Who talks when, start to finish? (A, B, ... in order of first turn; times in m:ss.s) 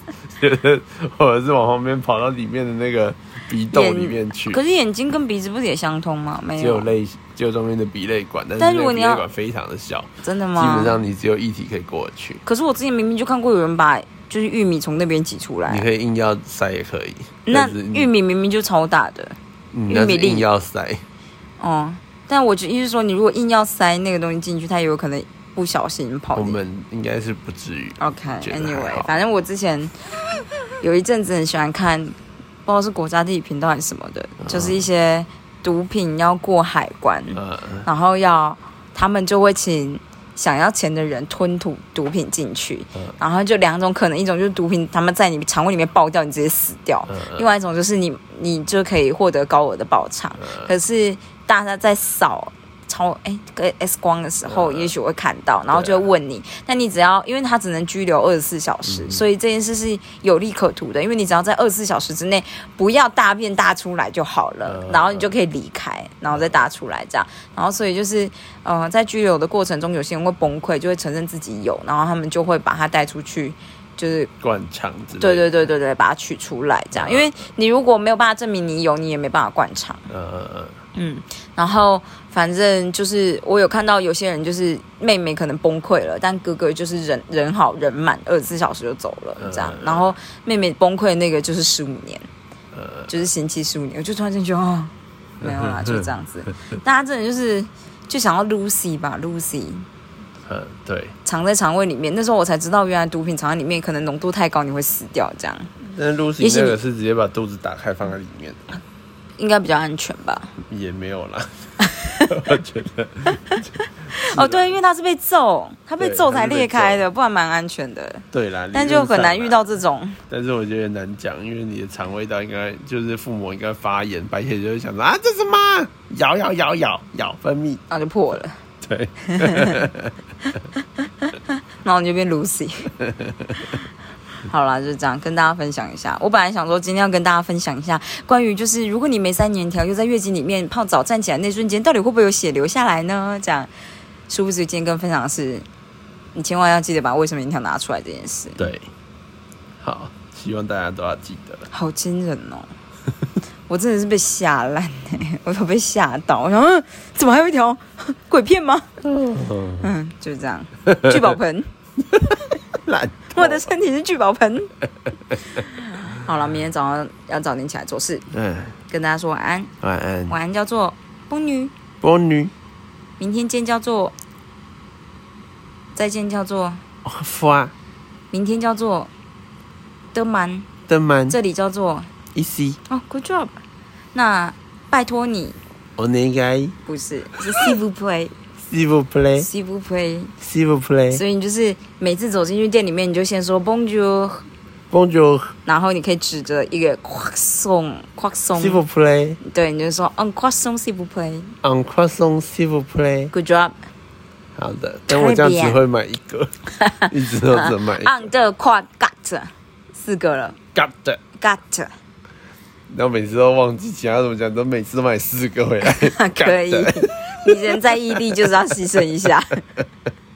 0:00.3-0:04.6 A
0:03.7-0:06.9 B
0:06.6-0:12.4 A
0:08.6-0:09.2 B
0:10.2-0:11.0 B
0:12.4-0:15.8 B
0:15.7-0:18.1 A
0:17.4-0:19.4 B
0:19.7-0:21.0 A
0:19.9-0:20.4 B
0:21.6-0:26.6 B
0:26.4-0:29.2 A
0:28.0-0:30.0 B
0:30.8-1:14.3 B
0:34.4-0:34.8 A
0:37.3-0:37.9 A
0:47.1-0:47.5 A
0:50.4-0:50.7 A
0:54.4-0:54.9 A
0:55.7-0:56.1 A
0:58.8-0:59.2 A
1:04.6-1:05.3 A
1:06.3-1:06.6 A
1:14.4-1:15.6 A
1:15.2-1:20.1 B
1:16.9-1:17.4 A
1:20.1-1:20.8 A
1:20.9-1:32.2 B
1:29.4-1:30.1 A
1:32.7-1:33.3 A
1:33.1-1:39.9 B
1:35.4-1:36.1 A
1:40.4-1:41.2 A
1:41.2-1:45.7 B
1:45.8-1:48.8 A
1:46.4-1:46.8 B
1:49.4-1:50.5 B
1:50.6-1:54.8 A
1:51.8-1:52.1 B
1:54.2-2:00.2 B
1:56.0-1:57.0 A
1:58.3-1:59.7 A
2:00.3-2:07.8 A
2:07.9-2:08.6 B
2:08.8-2:10.1 A
2:09.3-2:09.9 B
2:10.4-2:12.9 B
2:13.0-2:13.7 A
2:14.4-2:23.7 B
2:24.3-2:25.6 B
2:26.4-2:28.6 B
2:28.6-2:28.9 A
2:29.8-2:31.7 A
2:31.7-2:32.7 B
2:33.7-2:38.9 B
2:39.0-2:39.9 A
2:39.8-2:41.7 B
2:42.8-2:43.7 A
2:43.4-2:44.7 B
2:45.5-2:48.2 B
2:48.3-2:48.8 A
2:48.9-2:49.7 B
2:49.8-2:50.4 A
2:50.3-2:51.7 B
2:52.0-2:52.5 A
2:53.2-2:54.2 B
2:55.9-2:56.8 B
2:57.0-2:57.7 A
2:58.3-2:59.1 B
3:00.1-3:00.7 B
3:00.9-3:01.4 A
3:01.3-3:02.1 B
3:02.3-3:02.8 A
3:02.9-3:03.6 B
3:04.1-3:05.6 B
3:06.0-3:06.8 A
3:06.8-3:08.3 B
3:08.6-3:09.5 A
3:09.4-3:10.3 B
3:10.4-3:11.2 A
3:11.1-3:14.5 B
3:14.9-3:15.6 A
3:15.7-3:18.8 B
3:18.6-3:19.4 A
3:19.4-3:21.6 B
3:21.6-3:23.3 A
3:23.3-3:23.8 B
3:24.6-3:28.2 A
3:25.1-3:25.8 B
3:26.8-3:30.6 B
3:30.8-3:31.2 A
3:31.4-3:31.9 B
3:32.9-3:38.2 A
3:35.8-3:39.6 B